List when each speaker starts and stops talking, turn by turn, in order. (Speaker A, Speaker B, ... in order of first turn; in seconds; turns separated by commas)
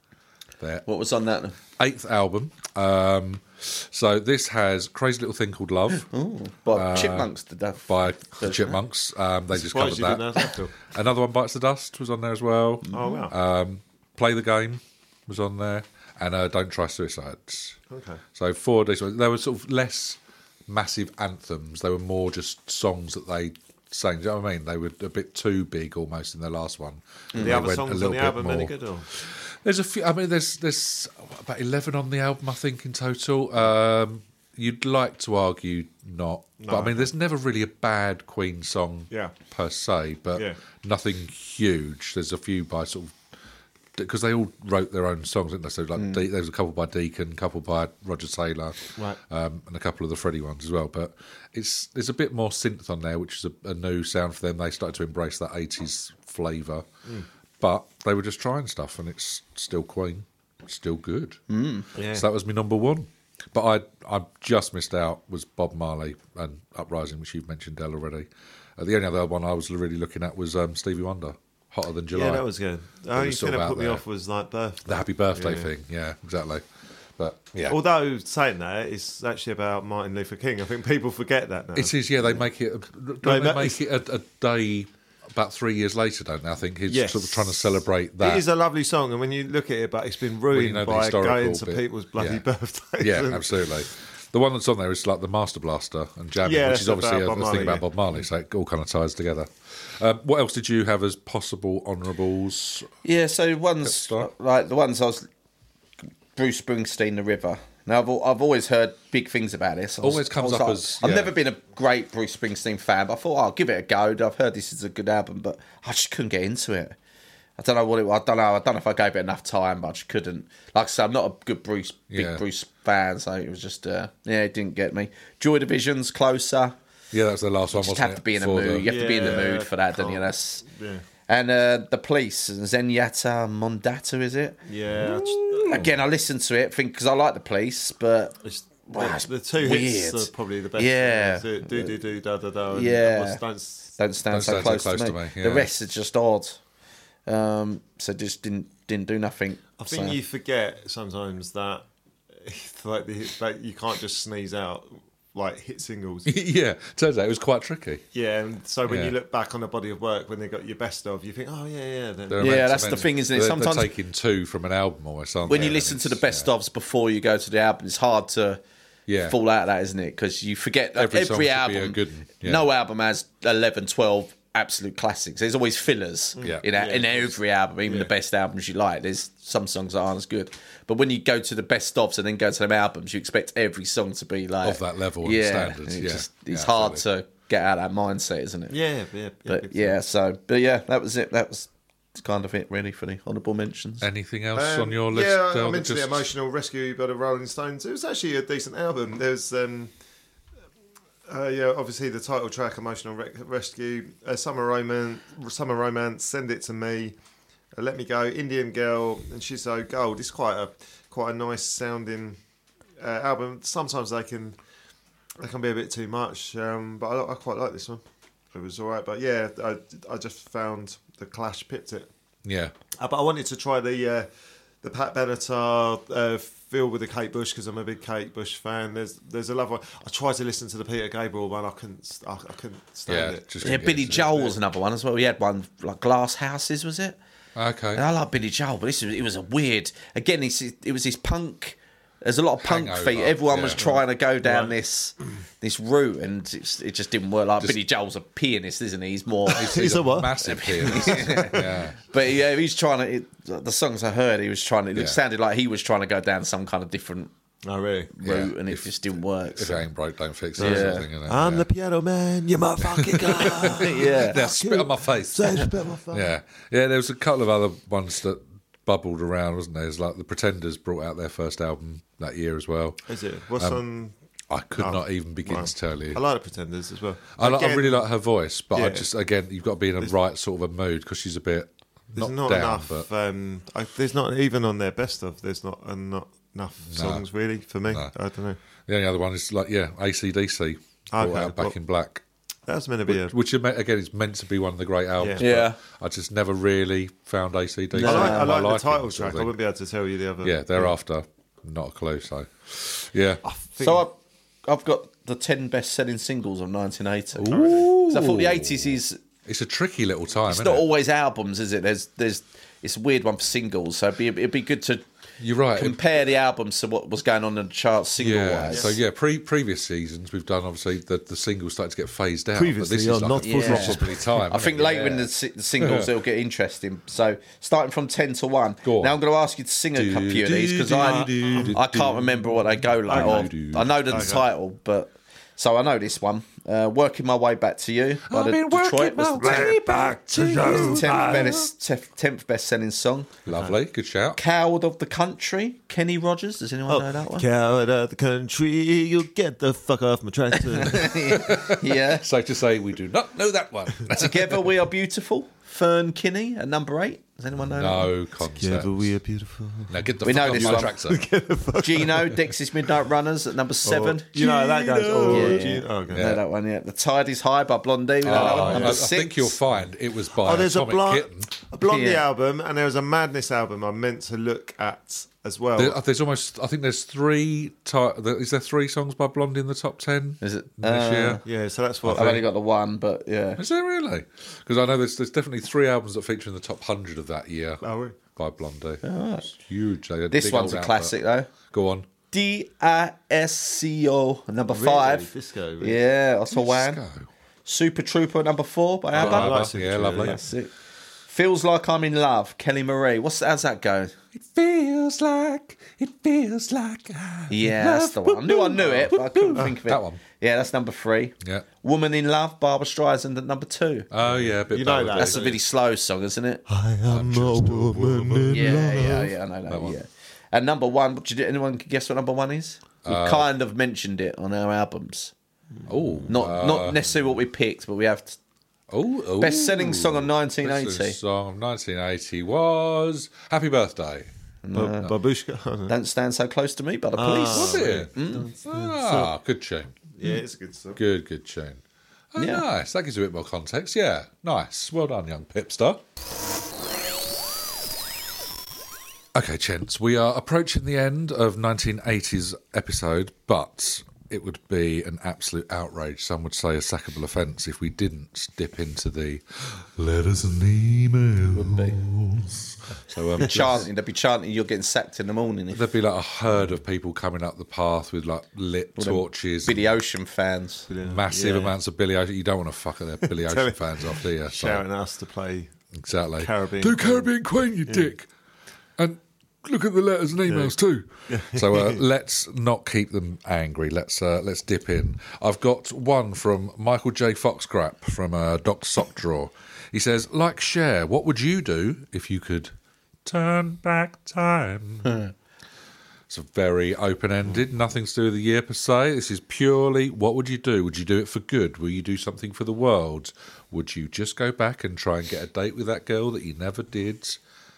Speaker A: 0.6-0.9, Speaker B: 0.9-1.6, Speaker A: 1.8-6.1, Speaker B: 6.0-8.8, Speaker A: 6.7-7.3, Speaker A: 7.9-17.8, Speaker C: 9.5-10.7, Speaker B: 12.9-13.2, Speaker C: 12.9-13.3, Speaker C: 17.9-18.2, Speaker A: 18.4-43.2, Speaker B: 27.3-27.6, Speaker C: 27.4-29.1, Speaker C: 36.6-37.1, Speaker A: 44.0-56.9, Speaker A: 57.6-61.4, Speaker B: 61.5-61.9, Speaker C: 62.0-62.2, Speaker A: 62.1-72.5, Speaker C: 72.1-75.7, Speaker A: 73.1-74.0, Speaker A: 74.8-76.7, Speaker A: 77.2-77.8, Speaker C: 77.7-82.5, Speaker A: 81.8-88.5, Speaker C: 83.2-83.8, Speaker C: 86.9-93.6, Speaker A: 90.5-92.4, Speaker A: 93.0-102.9, Speaker C: 96.4-97.9, Speaker B: 103.0-105.3, Speaker A: 103.8-104.3, Speaker B: 106.4-117.0, Speaker A: 110.0-111.3, Speaker B: 117.6-126.8, Speaker A: 122.1-122.4, Speaker A: 127.1-129.1, Speaker B: 127.7-130.7, Speaker C: 128.8-131.0, Speaker B: 131.3-138.4, Speaker C: 134.7-135.9, Speaker C: 138.4-143.9, Speaker B: 138.9-142.0, Speaker B: 142.7-143.4, Speaker B: 144.0-146.6, Speaker A: 144.3-145.7, Speaker B: 147.3-150.2, Speaker C: 149.8-156.3, Speaker A: 156.3-158.0, Speaker C: 158.1-162.9, Speaker A: 158.9-159.2, Speaker A: 162.3-166.5, Speaker B: 162.4-163.9, Speaker B: 165.5-168.6, Speaker A: 169.1-169.4, Speaker B: 169.3-188.8, Speaker A: 171.0-172.7, Speaker C: 176.4-178.1, Speaker A: 184.6-187.0, Speaker C: 188.7-190.0, Speaker B: 189.5-194.1, Speaker A: 194.0-196.3, Speaker C: 194.6-199.9, Speaker C: 201.3-207.2, Speaker C: 207.8-212.4, Speaker C: 213.0-214.6, Speaker C: 215.4-218.0, Speaker C: 218.5-222.1, Speaker A: 222.4-222.7, Speaker C: 223.0-224.3, Speaker C: 224.8-234.6, Speaker A: 233.1-234.3, Speaker B: 233.6-237.2, Speaker A: 237.6-238.0, Speaker B: 238.0-249.9, Speaker A: 242.6-243.9, Speaker C: 243.8-244.7, Speaker A: 249.5-252.0, Speaker C: 249.6-251.6, Speaker B: 250.4-257.3, Speaker C: 257.6-258.1, Speaker B: 258.2-259.9, Speaker A: 258.2-258.9, Speaker A: 259.5-261.7, Speaker B: 260.6-261.1, Speaker C: 260.6-266.4, Speaker A: 262.9-273.1, Speaker B: 263.7-264.6, Speaker C: 273.1-274.1, Speaker A: 274.5-276.2, Speaker C: 274.8-278.1, Speaker A: 277.4-283.1, Speaker C: 278.7-279.1, Speaker C: 282.1-288.6, Speaker A: 286.9-287.2, Speaker A: 287.9-288.1, Speaker A: 288.9-292.2, Speaker C: 291.1-291.8, Speaker C: 292.7-293.4, Speaker A: 293.1-299.5, Speaker B: 295.4-295.8, Speaker B: 297.9-298.5, Speaker C: 298.0-300.9, Speaker A: 300.4-303.4, Speaker C: 303.4-304.1, Speaker B: 303.8-309.2, Speaker A: 307.4-310.9, Speaker C: 307.5-307.9, Speaker B: 310.5-315.1, Speaker A: 315.4-316.0, Speaker B: 315.7-319.0, Speaker A: 318.2-326.1, Speaker C: 318.7-319.0, Speaker C: 322.6-324.4, Speaker B: 323.4-339.9, Speaker A: 328.8-329.2, Speaker A: 329.9-334.0, Speaker C: 331.1-331.8, Speaker C: 333.1-333.5, Speaker C: 334.0-334.5, Speaker A: 338.3-341.7, Speaker C: 340.4-341.4, Speaker B: 340.4-343.3, Speaker A: 343.4-344.4, Speaker B: 344.4-347.5, Speaker C: 346.9-351.4, Speaker B: 350.6-352.3, Speaker A: 350.9-354.7, Speaker B: 354.1-358.1, Speaker A: 357.7-359.1, Speaker C: 358.6-362.5, Speaker A: 359.9-361.2, Speaker B: 360.2-361.0, Speaker B: 361.8-364.4, Speaker C: 363.8-366.4, Speaker A: 364.4-366.4, Speaker B: 365.3-369.6, Speaker A: 368.2-371.5, Speaker C: 368.3-369.1, Speaker C: 370.3-376.0, Speaker B: 371.8-372.2, Speaker A: 375.8-381.4, Speaker B: 380.4-381.4, Speaker C: 381.4-382.4, Speaker A: 382.0-382.4, Speaker B: 382.1-383.6, Speaker A: 383.6-387.8, Speaker C: 387.8-388.2, Speaker A: 388.4-392.1, Speaker B: 389.0-389.5, Speaker B: 390.3-391.5, Speaker B: 392.3-395.3, Speaker C: 394.7-396.0, Speaker B: 395.8-397.0, Speaker A: 396.5-397.3, Speaker B: 397.7-400.7, Speaker A: 399.1-400.4, Speaker C: 399.1-400.4, Speaker B: 401.3-404.2, Speaker A: 404.3-410.2, Speaker B: 407.5-414.1, Speaker A: 414.1-415.4, Speaker C: 414.2-415.6, Speaker B: 415.1-416.6, Speaker C: 416.7-419.4, Speaker A: 417.1-418.9, Speaker B: 418.5-425.3, Speaker A: 419.7-420.0, Speaker A: 423.1-423.5, Speaker A: 425.9-427.0, Speaker B: 426.3-428.4, Speaker A: 428.9-434.3, Speaker B: 429.4-431.2, Speaker B: 434.6-435.1, Speaker C: 434.7-436.0, Speaker B: 435.9-438.5, Speaker C: 437.2-439.3, Speaker A: 437.5-440.3, Speaker C: 440.1-441.0, Speaker A: 441.0-441.8, Speaker A: 442.3-446.0, Speaker B: 442.4-442.6, Speaker A: 449.4-463.9, Speaker B: 461.6-462.0, Speaker B: 463.4-465.9, Speaker A: 465.7-469.9, Speaker B: 469.0-470.9, Speaker C: 470.9-471.8, Speaker A: 471.0-474.9, Speaker C: 473.3-475.7, Speaker A: 475.9-478.3, Speaker C: 476.4-477.3, Speaker C: 477.9-478.1, Speaker A: 479.0-492.7, Speaker C: 480.5-480.8, Speaker C: 481.3-482.0, Speaker A: 493.2-495.2, Speaker A: 496.3-507.4